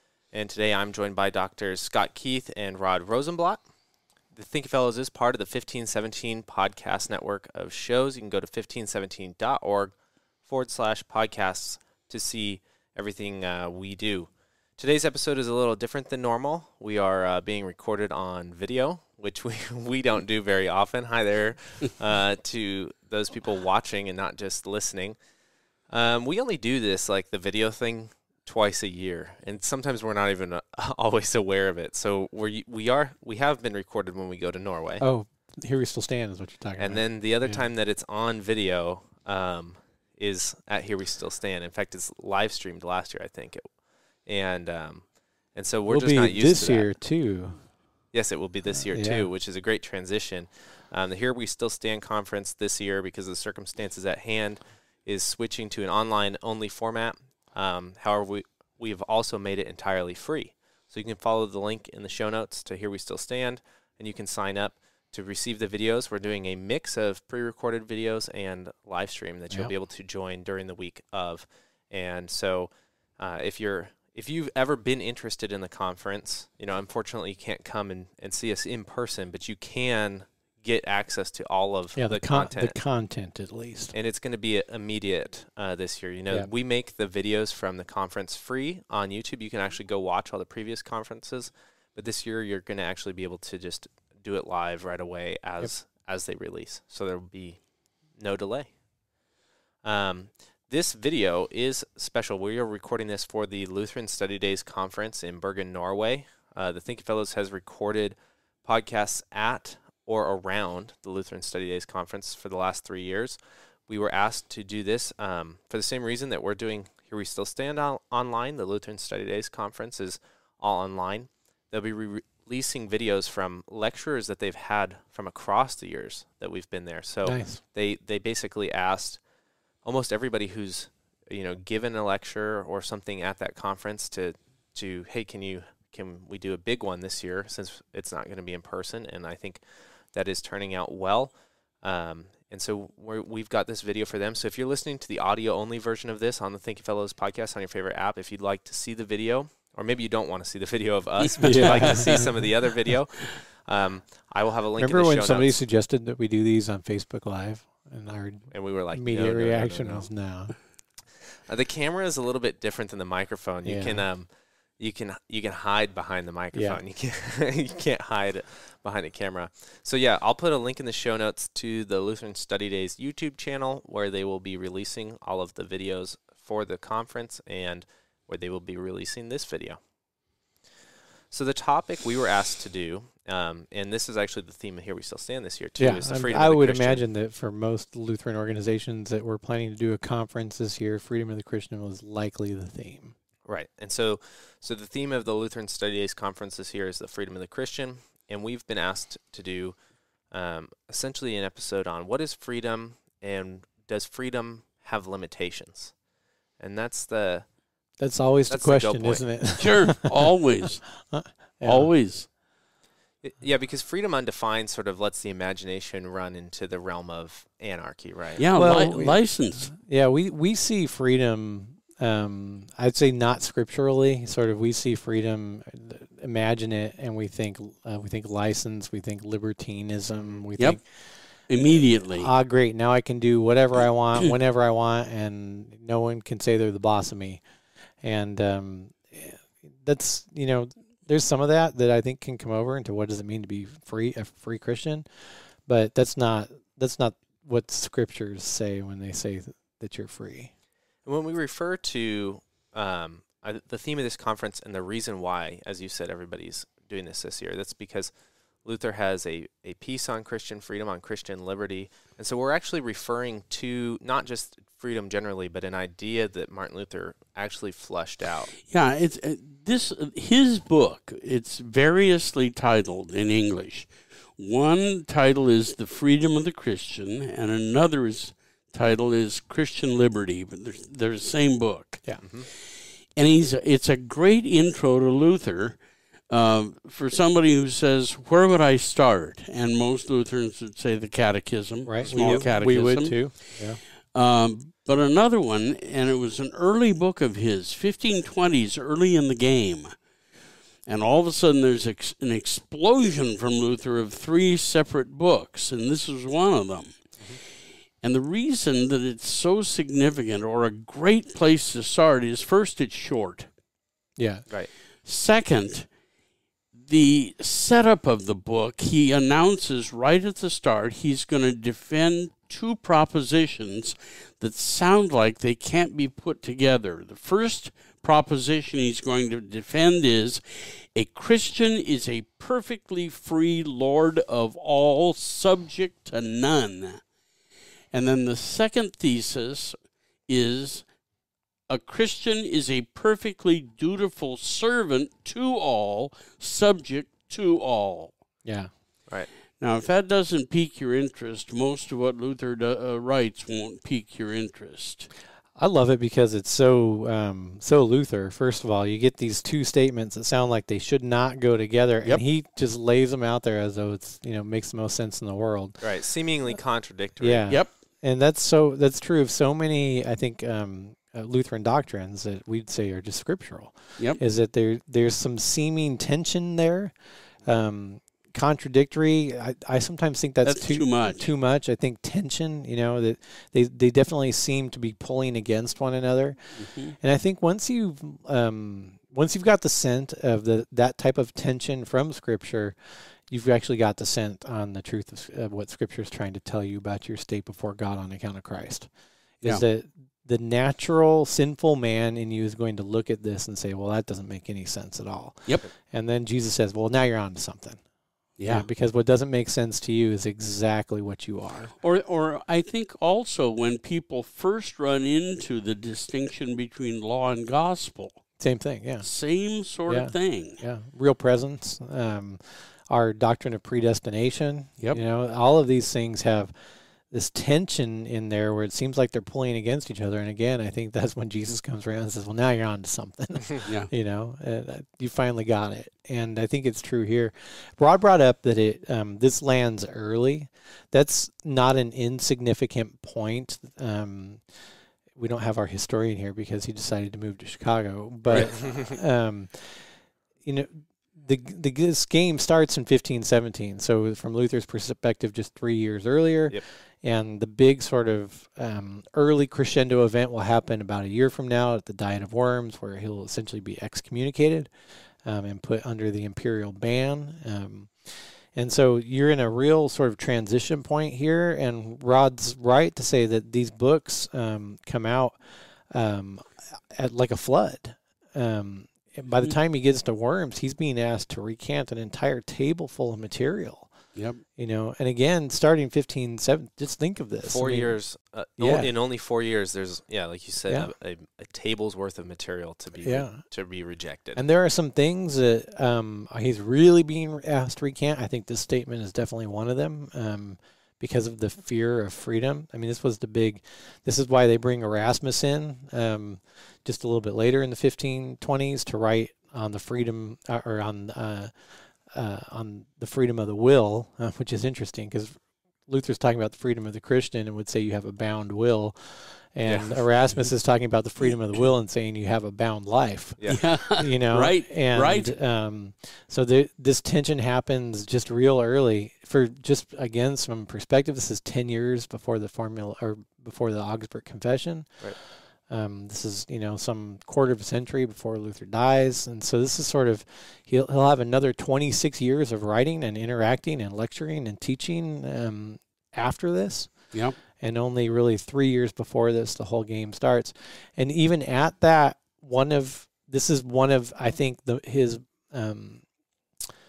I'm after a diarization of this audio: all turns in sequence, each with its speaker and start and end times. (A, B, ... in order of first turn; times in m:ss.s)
0:00.3-0:03.6 A
0:04.3-0:09.9 A
0:10.4-0:25.2 A
0:25.9-0:35.0 A
0:35.0-0:37.6 B
0:36.8-0:43.7 A
0:44.2-0:46.9 A
0:45.9-0:47.6 B
0:48.1-1:22.8 A
0:48.8-0:49.2 B
1:22.0-1:23.9 B
1:23.9-1:37.6 A
1:38.2-1:38.7 A
1:39.8-2:09.2 A
2:07.2-2:07.6 B
2:09.8-2:19.6 A
2:20.1-2:35.6 A
2:31.3-2:32.3 C
2:31.4-2:32.3 B
2:34.8-2:40.5 B
2:38.5-2:40.1 A
2:41.5-2:59.8 A
2:43.6-2:44.0 B
2:46.5-2:46.8 B
3:01.3-3:07.0 A
3:05.8-3:13.1 B
3:13.4-3:19.8 A
3:20.3-3:25.9 A
3:26.6-3:27.4 A
3:28.0-3:30.3 B
3:28.5-3:29.3 A
3:29.6-3:30.9 C
3:31.0-3:31.9 B
3:31.6-3:32.3 C
3:33.2-3:38.4 A
3:38.4-3:39.7 C
3:38.5-3:50.8 B
3:50.1-3:50.4 A
3:51.5-3:52.3 C
3:51.6-3:57.4 B
3:58.0-4:10.5 B
4:11.0-4:18.1 A
4:18.6-4:28.5 A
4:28.7-4:42.1 C
4:42.2-4:42.5 A
4:43.2-4:45.8 C
4:46.3-5:00.0 C
4:51.8-4:53.8 B
4:52.0-4:52.4 A
5:00.8-5:07.0 C
5:08.0-5:13.5 C
5:14.2-5:14.4 B
5:15.0-5:15.9 C
5:16.7-5:37.0 C
5:37.9-5:39.8 C
5:40.3-5:40.9 C
5:41.7-5:48.1 C
5:48.4-5:48.7 B
5:49.6-5:55.1 C
5:55.6-6:05.8 B
6:05.8-6:07.4 A
6:07.2-6:32.8 B
6:20.4-6:21.3 C
6:26.6-6:27.0 C
6:33.3-6:38.9 B
6:39.4-6:47.8 B
6:48.4-6:48.7 C
6:48.4-6:51.7 B
6:51.8-6:58.2 C
6:58.4-6:59.1 B
6:59.0-7:00.6 C
6:59.9-7:06.5 B
7:07.1-7:24.5 B
7:25.2-7:29.9 B
7:28.3-7:28.9 A
7:30.4-7:44.7 B
7:45.2-8:03.9 B
8:04.1-8:04.4 C
8:04.6-8:07.9 B
8:07.4-8:14.4 A
8:08.6-8:08.9 B
8:13.0-8:13.4 B
8:14.4-8:31.5 B
8:32.1-9:16.0 B
8:39.6-8:40.0 A
8:43.4-8:43.6 A
8:43.5-8:45.3 C